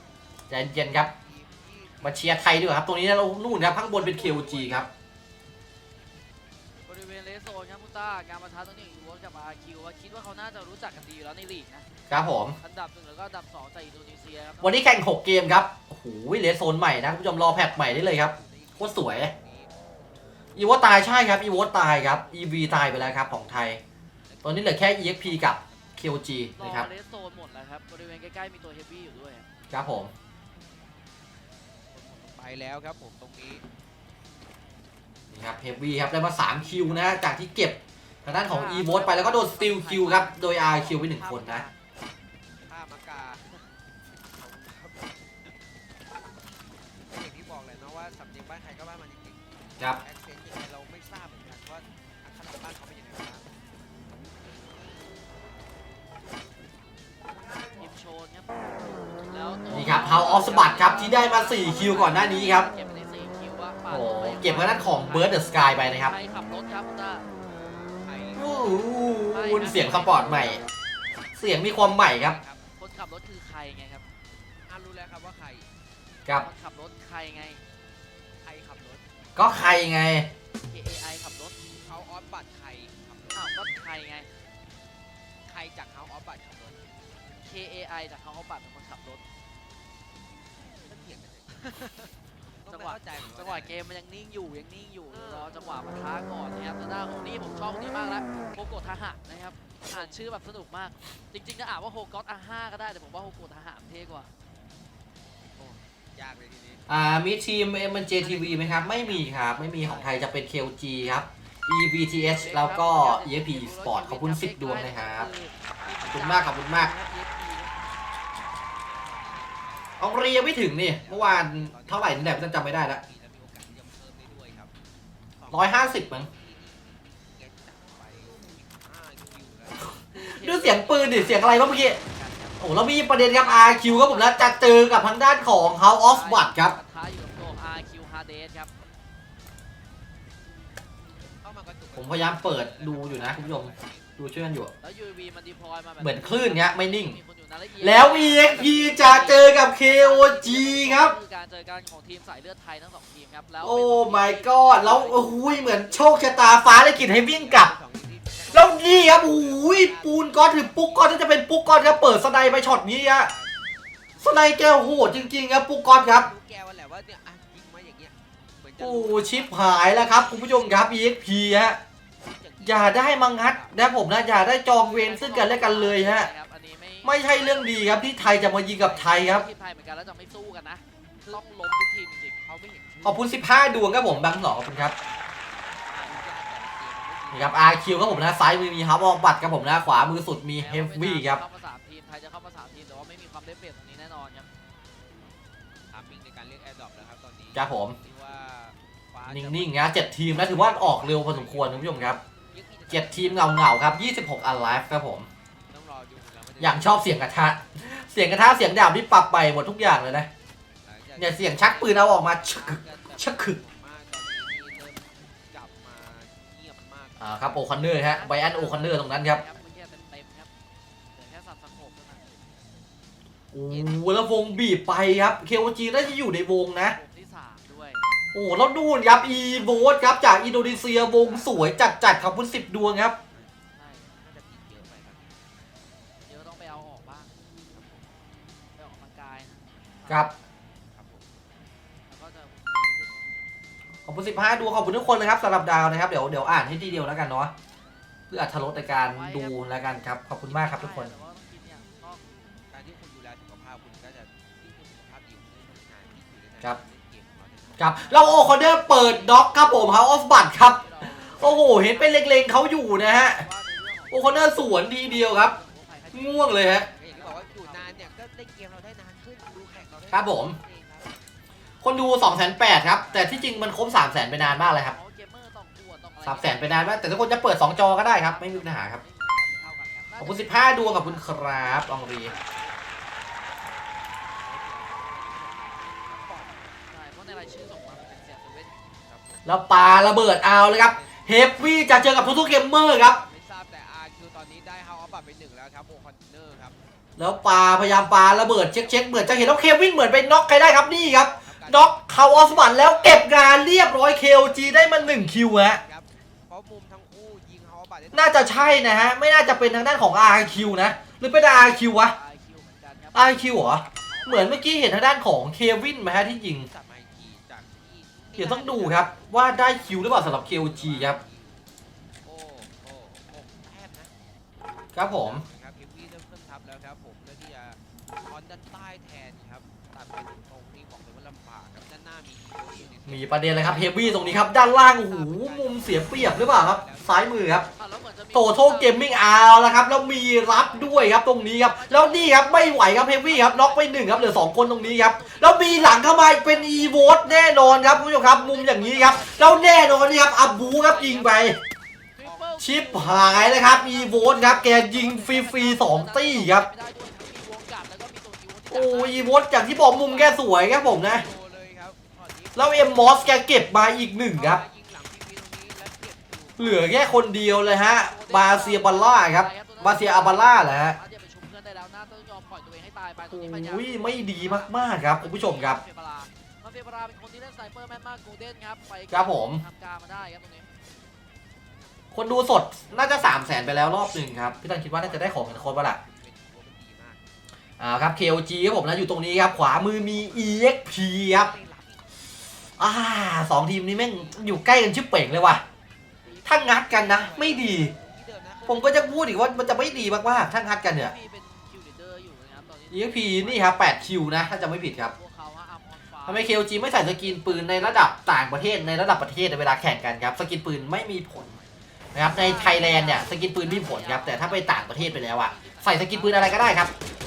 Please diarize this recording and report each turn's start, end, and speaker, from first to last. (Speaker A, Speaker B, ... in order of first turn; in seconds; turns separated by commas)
Speaker A: 0.5-1.1, Speaker B: 1.4-1.7, Speaker A: 2.0-4.9, Speaker B: 4.0-4.9, Speaker C: 6.9-11.8, Speaker A: 12.1-12.6, Speaker C: 12.7-14.6, Speaker A: 14.6-19.3, Speaker B: 17.7-19.6, Speaker A: 20.6-23.8, Speaker A: 24.4-26.9, Speaker C: 26.6-29.4, Speaker A: 29.7-30.1, Speaker B: 32.0-33.6, Speaker A: 35.3-41.6, Speaker C: 38.5-41.7, Speaker B: 42.7-43.4, Speaker B: 44.5-45.1, Speaker B: 47.1-49.4, Speaker B: 50.0-51.9, Speaker B: 52.4-53.5, Speaker C: 57.9-58.4, Speaker C: 59.4-65.3, Speaker A: 59.7-62.7, Speaker A: 63.9-66.1, Speaker C: 66.1-67.2, Speaker B: 68.1-68.4, Speaker A: 68.4-70.6, Speaker C: 69.4-69.9, Speaker A: 71.4-72.4, Speaker B: 72.3-72.6, Speaker C: 72.8-74.0, Speaker B: 74.7-75.7, Speaker C: 76.5-77.6, Speaker B: 78.5-79.0, Speaker A: 79.4-80.3, Speaker C: 80.7-81.5, Speaker B: 81.8-83.6, Speaker C: 83.4-84.3, Speaker B: 85.5-86.9, Speaker C: 87.6-89.2, Speaker B: 90.9-91.5, Speaker B: 92.7-93.7, Speaker C: 93.6-104.3, Speaker B: 106.2-106.8, Speaker A: 106.9-115.3, Speaker C: 112.6-115.5, Speaker A: 116.0-116.9, Speaker C: 116.2-117.6, Speaker A: 120.0-123.0, Speaker B: 121.0-122.1, Speaker B: 123.2-124.7, Speaker A: 125.5-126.3, Speaker B: 127.4-129.9, Speaker A: 130.2-132.0, Speaker C: 130.6-131.0, Speaker A: 132.6-136.8, Speaker C: 137.0-138.7, Speaker B: 141.5-143.7, Speaker A: 142.0-144.7, Speaker C: 145.0-145.7, Speaker A: 146.0-147.2, Speaker C: 147.8-149.3, Speaker A: 147.8-151.2, Speaker C: 150.1-153.7, Speaker A: 153.6-157.7, Speaker B: 157.2-158.6, Speaker A: 158.5-163.3, Speaker B: 159.5-161.1, Speaker A: 164.2-166.3, Speaker B: 166.2-168.1, Speaker B: 168.8-169.3, Speaker A: 168.8-171.8, Speaker A: 172.6-176.3, Speaker C: 175.0-176.7, Speaker A: 177.0-179.4, Speaker B: 178.7-179.2, Speaker C: 179.4-180.8, Speaker C: 181.3-182.4, Speaker B: 182.5-183.2, Speaker A: 183.0-184.9, Speaker B: 185.8-187.5, Speaker A: 187.3-191.4, Speaker C: 190.7-194.5, Speaker B: 195.9-199.4, Speaker A: 197.6-198.0, Speaker A: 199.3-202.2, Speaker B: 202.5-203.3, Speaker A: 202.9-205.3, Speaker B: 205.7-206.8, Speaker A: 206.6-210.3, Speaker B: 211.0-217.2, Speaker A: 211.2-213.6, Speaker A: 217.2-219.4, Speaker C: 218.3-220.5, Speaker C: 221.2-222.2, Speaker A: 223.5-227.0, Speaker C: 227.0-228.0, Speaker A: 228.3-233.2, Speaker B: 234.2-235.2, Speaker C: 236.3-237.3, Speaker C: 238.8-239.5, Speaker C: 242.1-242.6, Speaker A: 244.1-247.5, Speaker A: 248.3-251.1, Speaker C: 250.6-252.2, Speaker B: 252.8-257.9, Speaker A: 257.8-263.5, Speaker C: 260.8-261.2, Speaker A: 264.1-265.6, Speaker C: 265.6-266.1, Speaker A: 266.1-266.9, Speaker B: 267.0-271.1, Speaker A: 270.1-270.6, Speaker A: 271.8-275.0, Speaker C: 275.0-276.5, Speaker A: 276.2-279.0, Speaker A: 280.2-282.3, Speaker B: 284.6-285.7, Speaker C: 286.9-288.6, Speaker A: 289.4-293.2, Speaker B: 293.2-296.8, Speaker A: 297.2-305.8, Speaker B: 306.5-308.3, Speaker A: 308.1-312.2, Speaker A: 313.1-316.7, Speaker B: 316.8-319.1, Speaker A: 318.4-321.2, Speaker B: 320.6-321.3, Speaker B: 322.3-324.1, Speaker A: 324.9-325.4, Speaker B: 325.4-334.4, Speaker A: 333.1-337.7, Speaker B: 335.3-337.1, Speaker A: 338.3-351.6, Speaker C: 348.8-349.3, Speaker C: 352.2-352.6, Speaker A: 352.6-356.7, Speaker C: 354.1-359.2, Speaker A: 358.7-361.2, Speaker B: 361.2-362.2, Speaker A: 362.6-364.6, Speaker B: 364.4-366.8, Speaker A: 366.6-371.0, Speaker C: 368.2-368.9, Speaker C: 369.5-369.8, Speaker C: 371.2-373.9, Speaker A: 373.3-375.8, Speaker C: 375.4-380.6, Speaker A: 379.1-379.6, Speaker A: 382.1-386.0, Speaker B: 385.3-387.2, Speaker A: 387.8-391.5, Speaker B: 391.4-392.0, Speaker A: 392.8-395.6, Speaker A: 396.4-397.9, Speaker B: 397.4-398.8, Speaker A: 398.7-401.1, Speaker C: 401.3-402.9, Speaker A: 402.9-405.1, Speaker C: 405.3-406.3, Speaker A: 406.3-411.6, Speaker A: 412.1-416.9, Speaker C: 412.5-416.4